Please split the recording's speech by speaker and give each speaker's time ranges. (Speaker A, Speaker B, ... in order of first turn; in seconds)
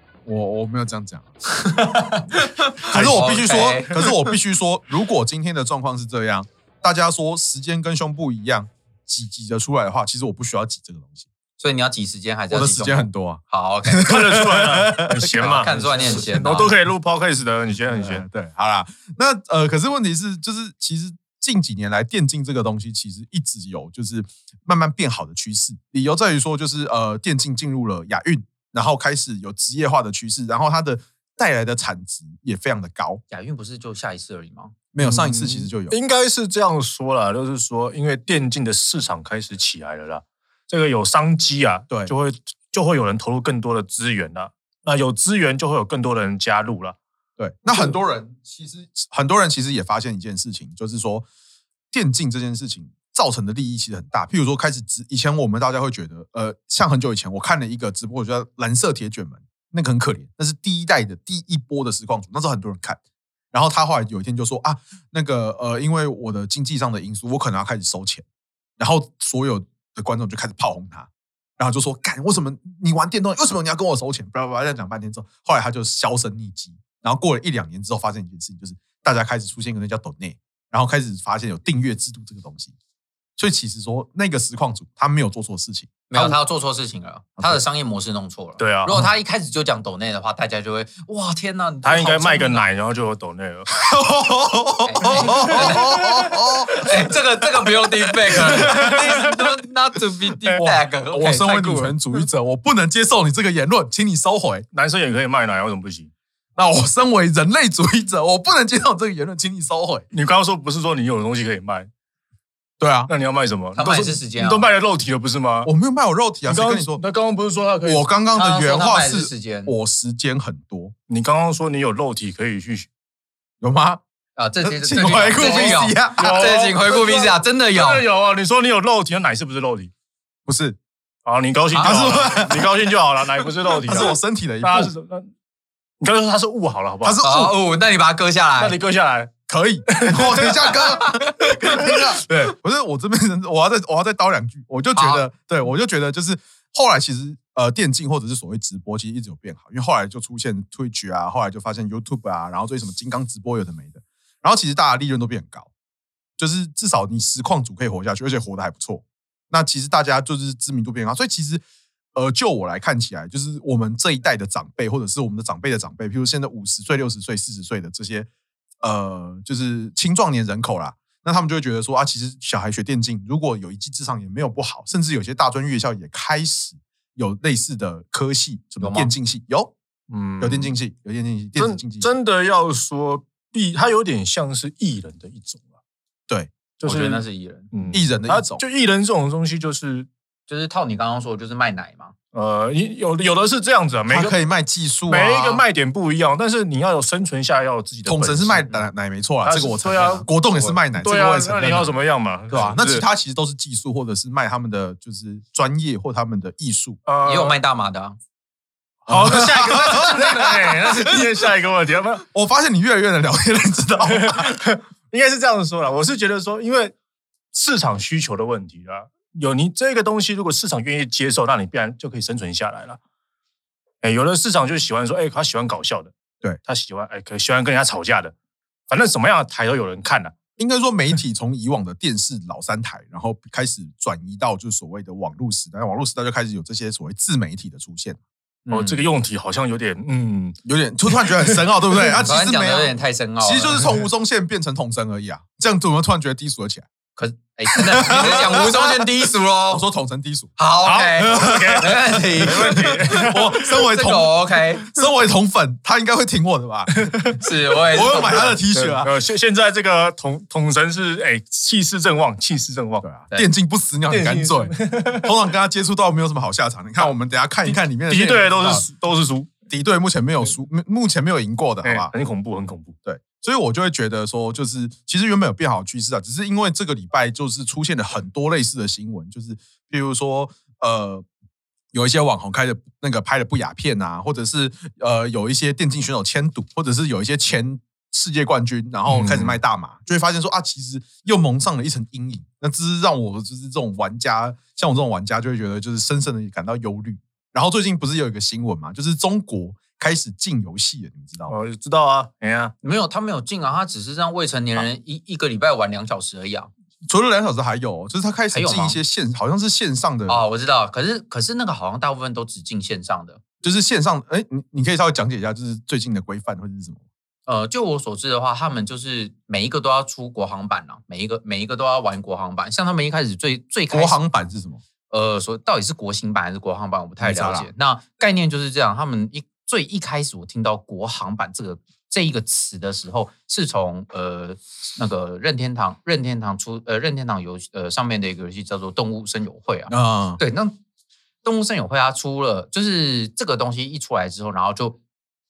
Speaker A: 0.2-1.3, 2.9-11.2, 12.5-16.6, 17.9-33.2, 34.9-36.0, 47.4-51.3, 51.9-63.0, 63.5-68.2, 68.8-71.1, 71.6-82.7, 83.4-86.3, 93.8-97.1, 98.3-99.3, 100.5-104.7, 106.5-110.0, 112.8-113.1, 115.6-117.0, 117.8-120.9, 123.6-124.0, 124.6-126.5, 130.5-130.8, 131.8-134.9, 137.0-137.6, 139.5-155.7, 156.4-161.6, 162.1-168.3, 168.8-179.7, 180.4-182.1, 187.9-188.6, 194.1-195.6, 198.0-201.9, 202.5-207.0, 209.1-211.3, 212.2-214.6, 230.6-238.8, 240.6-246.8, 247.7-249.1, 249.7-259.1, 263.0-268.8, 269.7-272.1, 273.0-281.2, 281.9-301.5, 307.1-310.4, 313.6-317.0, 323.9-324.8, 327.2-327.7, 339.9-340.4
Speaker B: 1.5-4.0, 11.6-14.1, 15.4-16.8, 33.3-34.7, 86.1-92.6, 94.8-102.0, 113.7-114.7, 118.3-119.7, 124.3-128.0, 131.7-132.2, 137.2-138.8, 144.9-145.3, 178.8-179.1, 186.8-187.7, 190.5-192.1, 207.2-208.2, 238.7-239.0, 242.1-243.9, 247.2-249.8, 250.6-254.9, 257.4-258.6, 302.8-306.7, 308.5-309.0, 310.3-313.4, 317.5-324.2, 325.1-340.8, 341.4-345.0
Speaker C: 2.9-4.1, 14.0-18.2, 35.0-47.0, 88.6-89.0, 91.8-93.7, 95.1-95.8, 98.5-99.3, 104.7-106.1, 110.1-111.9, 113.1-115.7, 116.5-118.0, 121.1-122.9, 125.4-129.9, 131.2-135.3, 136.0-137.2, 138.6-139.3, 139.9-140.9, 141.8-142.5, 180.1-180.7, 181.6-185.7, 186.8-190.1, 192.3-194.3, 195.1-198.8, 199.4-200.3, 200.9-203.0, 207.1-207.6, 209.1-212.2, 214.0-216.9, 217.5-223.0, 224.0-226.1, 226.7-228.3, 228.9-230.3, 238.7-242.2, 251.2-253.5, 256.9-263.1, 264.1-265.3, 267.6-269.6, 271.8-272.9, 289.1-289.6, 301.5-302.7